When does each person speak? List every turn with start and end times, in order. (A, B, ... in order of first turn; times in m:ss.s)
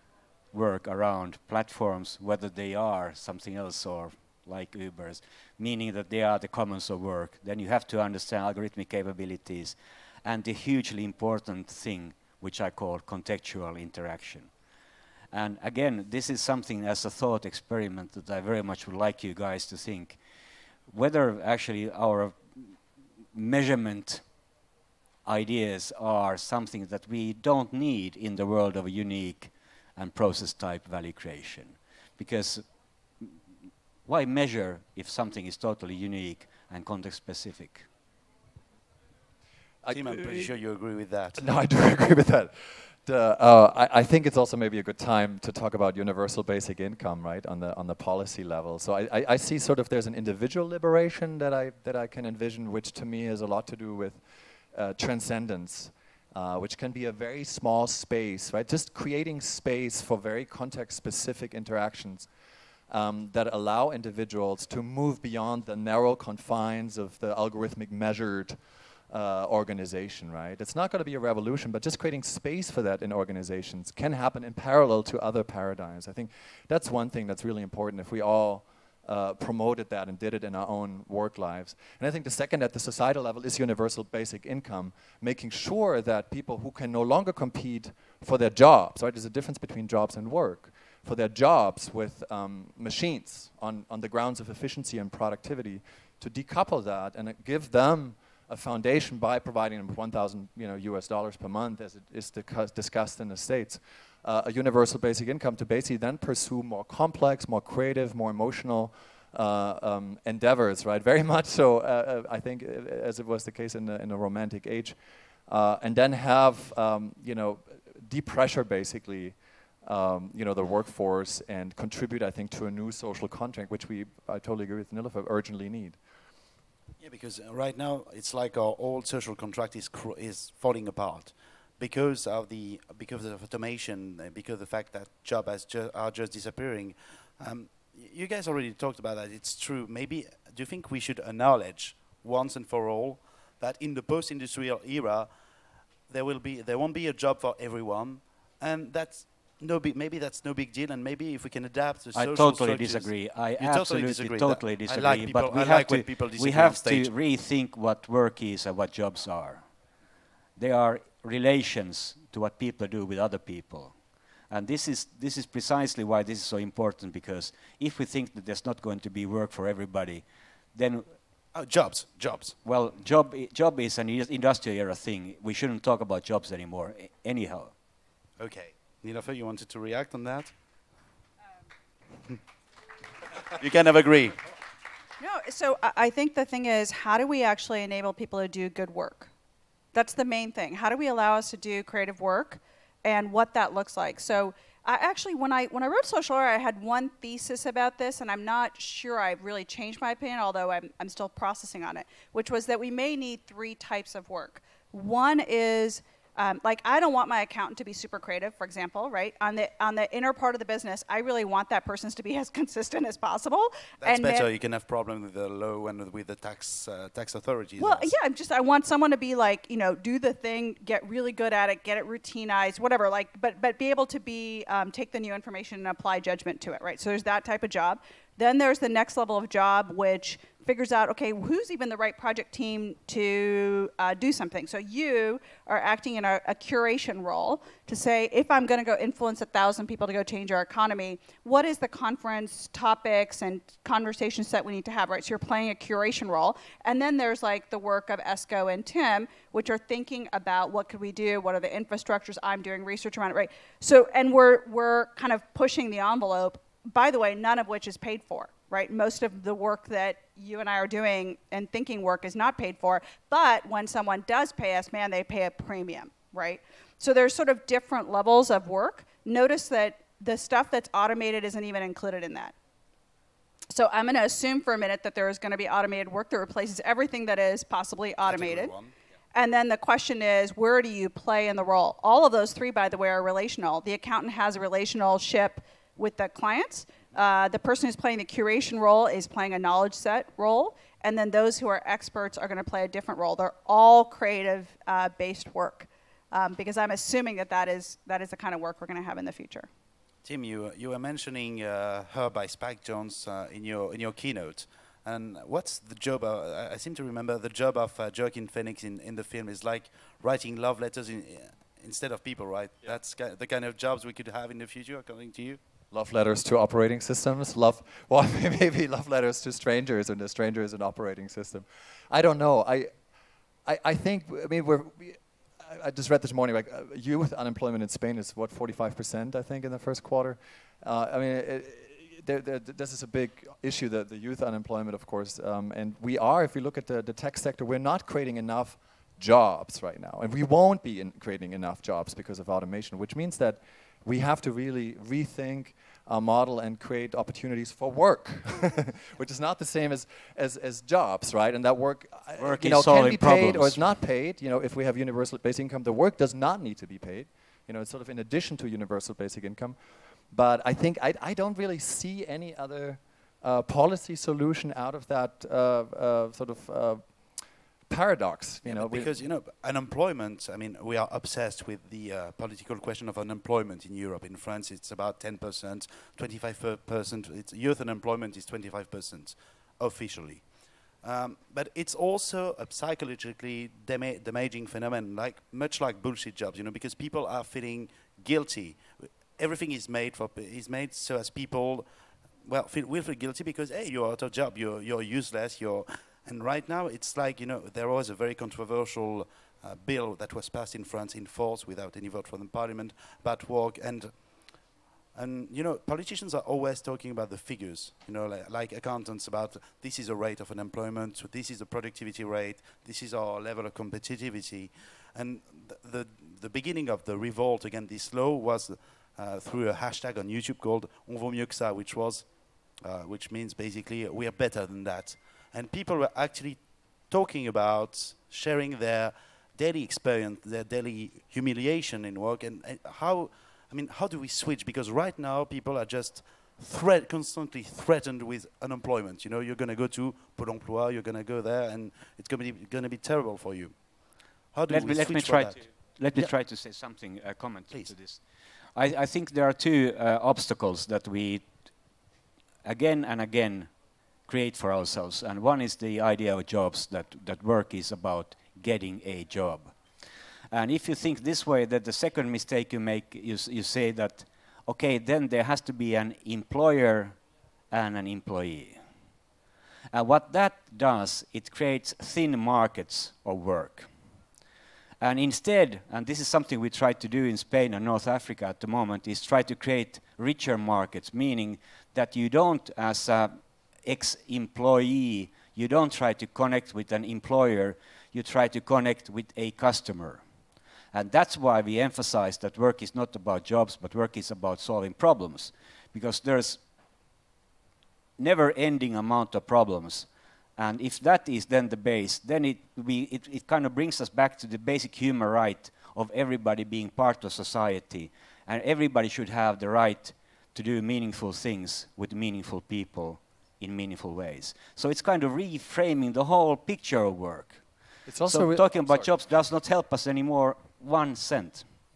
0:00.5-0:14.5 A
0:15.3-0:20.2 A
0:20.9-0:22.8 A
0:23.3-0:24.2 A
0:25.2-0:32.6 A
0:34.0-0:37.9 A
0:39.8-0:40.5 B
0:39.9-0:41.4 C
0:41.4-0:54.2 B
0:54.7-1:02.3 B
1:02.9-1:08.6 B
1:09.1-1:55.0 B
1:55.5-2:06.0 B
2:07.0-2:25.3 C
2:26.1-2:37.1 C
2:32.1-2:39.6 A
2:40.6-2:44.0 A
2:44.5-2:51.0 A
2:51.5-2:52.6 C
2:52.6-2:57.7 A
2:58.4-3:00.5 C
3:03.5-3:04.4 C
3:05.2-3:09.3 D
3:09.9-3:34.5 D
3:34.0-3:38.1 C
3:37.8-4:32.5 D
4:33.7-4:38.7 D
4:38.2-4:38.9 C
4:39.3-4:59.7 D
5:00.2-5:15.6 C
5:15.9-5:22.9 B
5:23.6-5:59.8 B
5:52.4-5:53.8 A
6:00.3-6:07.0 B
6:07.9-6:09.1 B
6:08.6-6:20.4 C
6:21.0-6:31.9 C
6:32.4-6:44.5 C
6:45.1-7:23.8 C
7:24.5-7:25.6 C
7:24.7-7:28.2 A
7:28.7-7:31.7 A
7:32.6-7:33.7 A
7:34.2-7:39.8 A
7:40.5-7:47.2 A
7:47.7-7:48.8 A
7:49.9-7:53.9 A
7:55.0-8:10.2 A
8:10.9-8:16.6 A
8:18.2-8:37.6 A
8:38.1-8:39.1 B
8:38.3-8:41.6 A